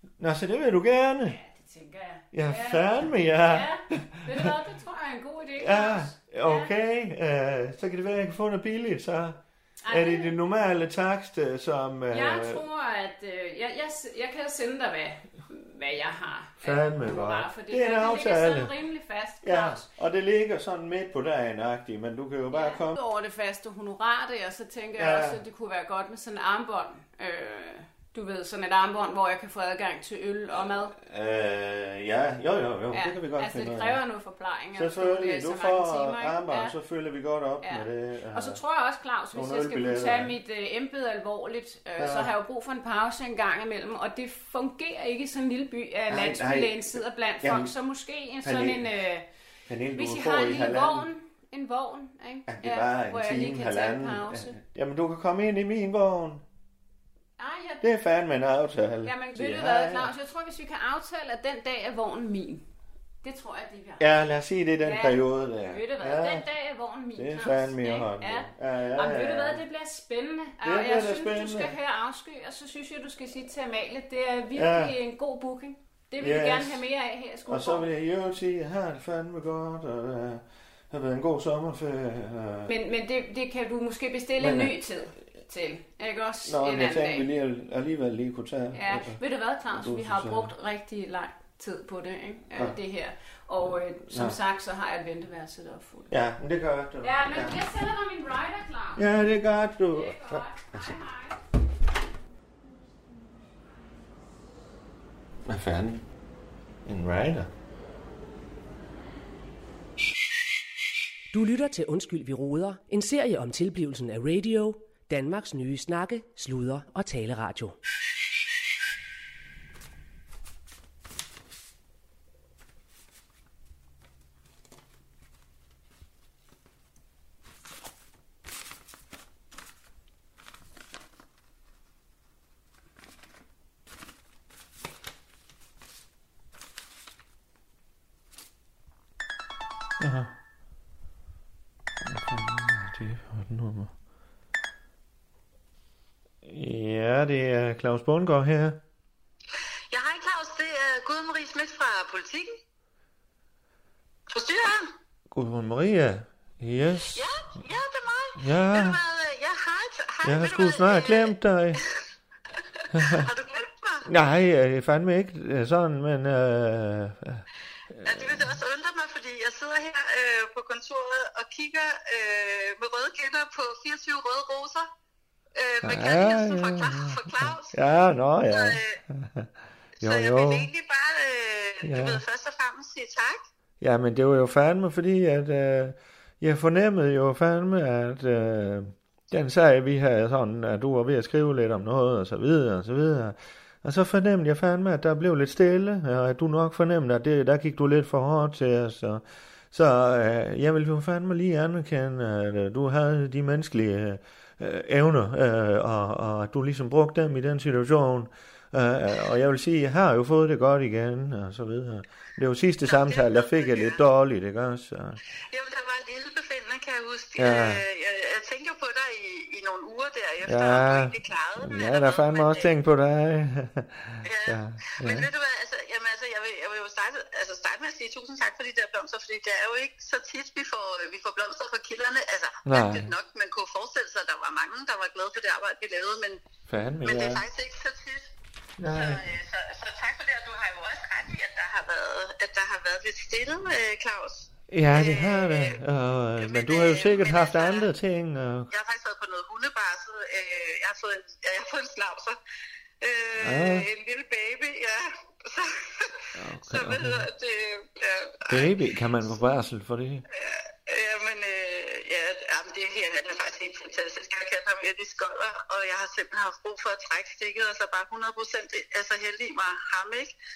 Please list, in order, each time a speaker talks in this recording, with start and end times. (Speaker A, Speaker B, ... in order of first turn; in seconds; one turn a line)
Speaker A: 0.2-1.4
Speaker B: 1.2-6.7
Speaker A: 2.3-4.5
Speaker A: 5.6-12.6
Speaker B: 9.8-10.3
Speaker B: 12.1-19.9
Speaker A: 16.6-18.7
Speaker A: 19.4-23.0
Speaker B: 22.5-30.9
Speaker A: 24.9-25.4
Speaker A: 30.9-34.0
Speaker B: 32.9-36.7
Speaker A: 34.7-38.6
Speaker B: 37.6-49.2
Speaker A: 39.3-40.4
Speaker A: 42.0-42.3
Speaker A: 46.1-46.8
Speaker A: 47.4-47.7
Speaker A: 48.4-48.9
Speaker A: 49.7-51.1
Speaker B: 50.0-54.5
Speaker A: 52.5-56.4
Speaker B: 57.4-57.9
Speaker A: 57.8-60.1
Speaker B: 59.0-62.6
Speaker B: 63.2-64.1
Speaker A: 64.0-66.5
Speaker B: 64.8-77.9
Speaker A: 67.1-69.6
Speaker A: 70.6-71.7
Speaker A: 74.5-75.0
Speaker A: 76.2-76.8
Speaker A: 77.4-82.7
Speaker B: 82.7-87.3
Speaker A: 84.4-84.8
Speaker A: 86.4-89.2
Speaker B: 88.7-96.1
Speaker A: 89.7-90.5
Speaker A: 94.1-94.3
Speaker A: 96.1-97.6
Speaker B: 97.0-99.0
Speaker A: 99.0-100.9
Speaker B: 99.9-101.4
Speaker A: 105.5-106.0
Speaker A: 106.8-107.5
Speaker C: 111.3-117.8
Speaker A: 140.0-140.3
Speaker A: 142.0-143.9
Speaker A: 146.4-148.8
Speaker D: 149.9-152.6
Speaker D: 154.3-154.9
Speaker A: 155.3-157.2
Speaker D: 157.1-161.9
Speaker A: 158.4-159.0
Speaker A: 160.2-161.8
Speaker D: 162.8-164.1
Speaker A: 162.9-163.3
Speaker A: 164.1-168.6
Speaker D: 168.0-174.9
Speaker D: 175.5-177.8
Speaker A: 175.8-179.5
Speaker D: 178.5-179.0
Speaker D: 180.0-183.4
Speaker A: 180.0-180.7
Speaker A: 181.8-182.2
Speaker A: 183.8-215.2
Speaker D: 212.8-214.0
Speaker D: 215.5-222.7
Speaker A: 217.4-217.8
Speaker A: 220.4-225.3
Speaker D: 224.2-236.4
Speaker A: 232.7-233.1
Speaker A: 236.7-237.4
Speaker D: 237.0-238.3
Speaker A: 238.8-239.2
Speaker D: 238.9-245.8
Speaker A: 244.7-248.7
Speaker D: 246.4-247.9
Speaker D: 248.7-252.4
Speaker D: 253.0-258.7
Speaker A: 253.4-253.9
Speaker A: 256.4-257.3
Speaker A: 258.5-260.2
Speaker D: 260.3-270.3